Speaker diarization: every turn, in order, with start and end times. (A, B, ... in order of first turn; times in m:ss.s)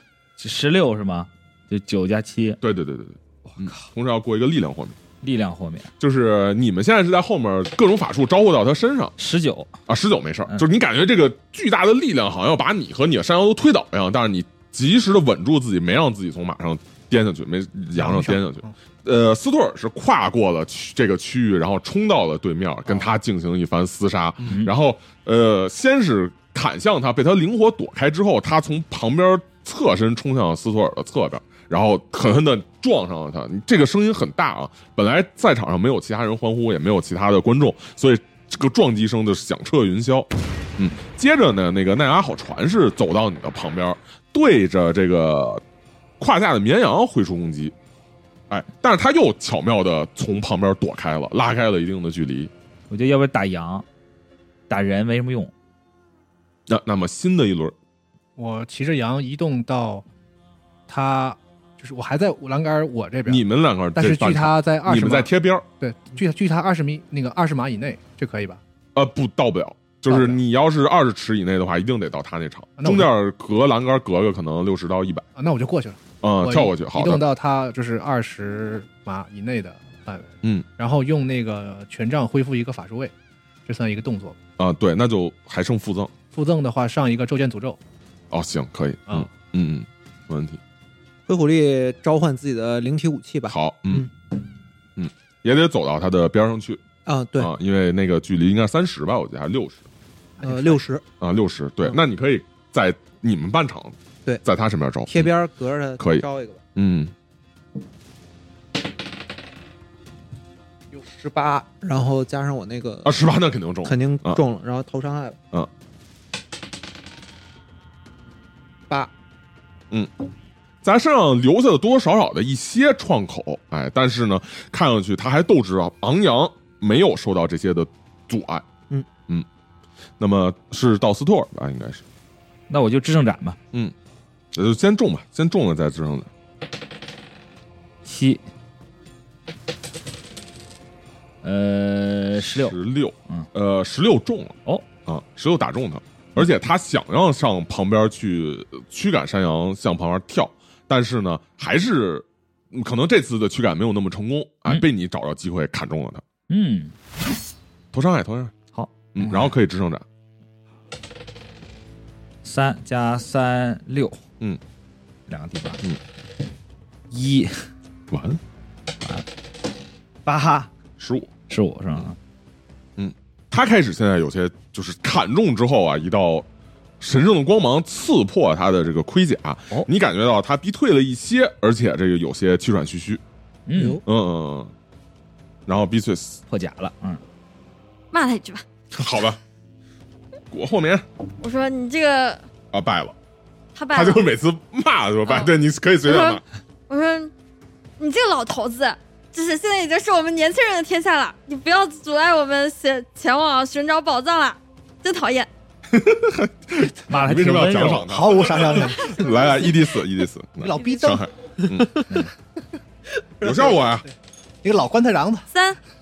0:00.4-0:02.6 A
0:02.6-0:05.0 B
0:03.5-0:03.8 A
0:05.2-0:05.9 A
0:06.0-0:09.1 B
0:09.2-0:09.7 A
0:09.9-0:45.6 B
0:17.9-0:18.7 C
0:24.4-0:24.7 A
0:46.2-0:47.7 B
0:48.5-0:52.5 B
0:52.9-0:53.8 A
0:54.7-0:55.5 A
0:56.7-0:57.7 B
0:58.4-1:00.0 C
1:00.9-1:08.6 C
1:03.3-1:05.6 B
1:08.9-1:15.2 B
1:10.1-1:10.4 C
1:12.8-1:13.1 C
1:15.4-1:23.1 C
1:16.2-1:17.2 B
1:23.6-1:24.4 C
1:24.6-1:26.1 B
1:26.3-1:27.8 C
1:28.3-1:30.6 B
1:31.3-1:34.1 D
1:33.5-1:34.1 B
1:35.0-1:36.8 B
1:37.0-1:37.5 D
1:37.4-1:39.8 B
1:40.4-1:40.8 C
1:40.4-1:41.0 D
1:41.2-1:45.3 B
1:45.1-1:46.6 D
1:46.0-1:47.1 B
1:50.9-1:53.2 D
1:53.0-1:54.4 B
1:53.8-1:55.4 D
2:00.8-2:08.6 B
2:10.2-2:12.0 B
2:12.7-2:13.6 A
2:14.5-2:16.3 B
2:18.0-2:18.4 A
2:21.4-2:22.8 A
2:22.4-2:36.2 B
2:36.5-2:36.9 A
2:37.9-2:38.6 B
2:38.7-2:39.5 A
2:39.1-2:40.0 B
2:42.4-2:44.2 A
2:45.3-2:45.8 A
2:47.1-2:47.6 A
2:48.1-2:48.4 B
2:50.2-2:50.7 A
2:51.0-2:51.3 B
2:51.5-2:52.2 A
2:53.0-2:56.5 B
2:57.0-3:03.2 B
3:03.7-3:04.0 A
3:03.7-3:04.0 D
3:04.0-3:04.7 B
3:05.6-3:06.4 B
3:06.5-3:07.2 A
3:08.1-3:08.6 E
3:08.9-3:09.4 B
3:10.5-3:11.0 B
3:11.4-3:12.4 E
3:12.7-3:13.1 B
3:13.7-3:14.2 E
3:13.9-3:16.4 B
3:15.2-3:15.5 E
3:16.0-3:17.3 E
3:18.0-3:25.5 E
3:25.9-3:32.0 B
3:27.1-3:28.1 A
3:28.0-3:29.3 C
3:29.0-3:29.8 E
3:30.6-3:31.2 C
3:30.8-3:31.2 E
3:33.4-3:33.8 D
3:33.4-3:34.0 B
3:34.6-3:35.4 C
3:35.5-3:35.8 E